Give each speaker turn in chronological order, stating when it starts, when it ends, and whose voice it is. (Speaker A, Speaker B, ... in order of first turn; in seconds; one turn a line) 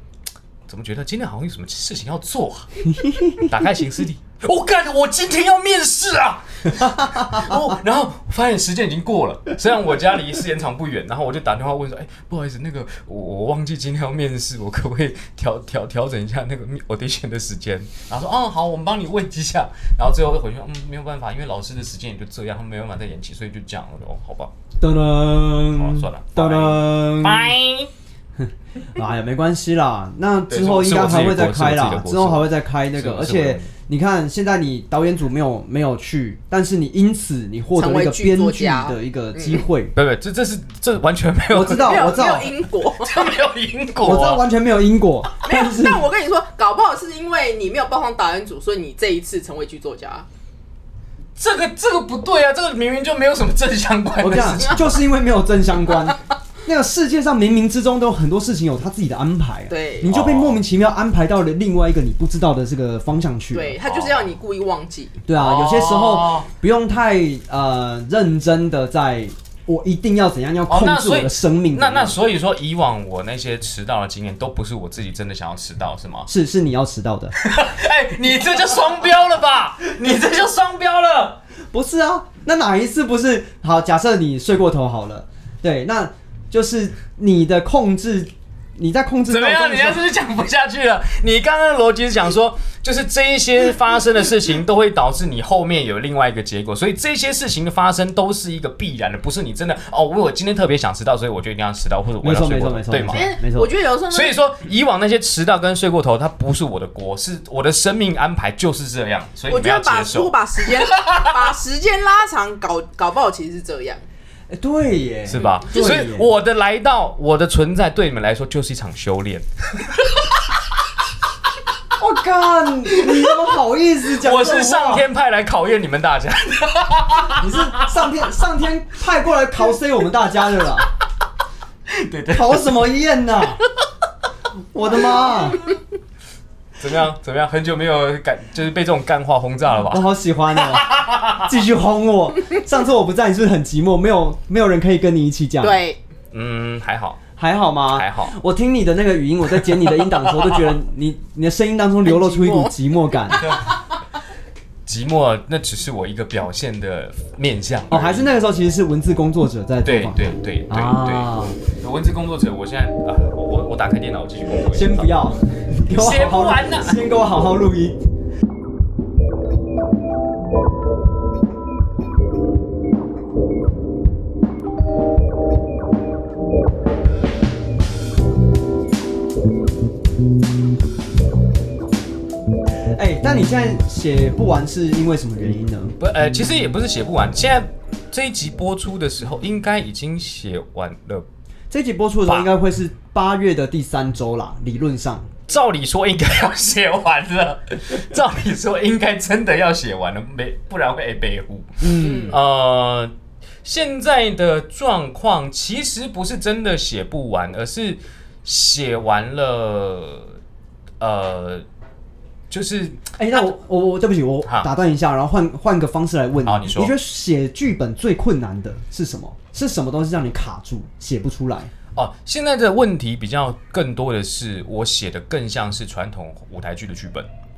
Speaker A: 0.7-24.5
Speaker B: 2.9-3.5
Speaker B: 24.8-27.5
Speaker A: 25.7-27.9
Speaker B: 28.4-39.9
Speaker A: 30.5-33.7
Speaker C: 37.8-39.6
Speaker A: 39.9-42.4
Speaker B: 41.5-42.5
Speaker C: 41.7-43.2
Speaker A: 43.0-44.4
Speaker B: 44.0-46.0
Speaker C: 45.4-50.2
Speaker A: 51.4-55.0
Speaker B: 54.2-63.8
Speaker C: 59.7-60.1
Speaker A: 60.0-60.6
Speaker C: 63.5-65.2
Speaker A: 63.8-64.3
Speaker B: 65.2-72.2
Speaker A: 65.3-66.5
Speaker A: 70.7-76.3
Speaker B: 76.3-77.3
Speaker A: 77.4-81.4
Speaker B: 81.7-90.0
Speaker A: 89.3-103.3
Speaker B: 102.2-103.7
Speaker C: 103.1-104.3
Speaker A: 104.1-111.3
Speaker C: 109.5-114.0
Speaker B: 114.5-116.3
Speaker A: 115.3-120.2
Speaker B: 122.0-125.0
Speaker A: 122.9-123.3
Speaker A: 124.2-128.1
Speaker B: 127.3-130.9
Speaker A: 131.9-132.9
Speaker B: 132.3-133.6
Speaker B: 134.7-135.7
Speaker A: 136.8-141.5
Speaker B: 139.9-140.9
Speaker B: 141.4-145.8
Speaker C: 145.6-146.0
Speaker A: 146.3-147.2
Speaker B: 147.4-153.4
Speaker A: 147.9-148.3
Speaker C: 152.0-152.7
Speaker A: 153.4-153.7
Speaker A: 154.8-158.3
Speaker B: 157.9-161.6
Speaker A: 159.8-165.2
Speaker B: 164.7-168.0
Speaker A: 165.9-167.0
Speaker B: 182.9-185.9
Speaker A: 186.0-191.2
Speaker B: 191.7-195.3
Speaker A: 195.5-203.1
Speaker B: 201.8-202.4
Speaker C: 202.0-202.4
Speaker A: 203.6-210.4
Speaker A: 211.0-211.6
Speaker A: 212.5-213.4
Speaker B: 213.2-221.7
Speaker A: 216.4-216.9
Speaker A: 221.9-227.3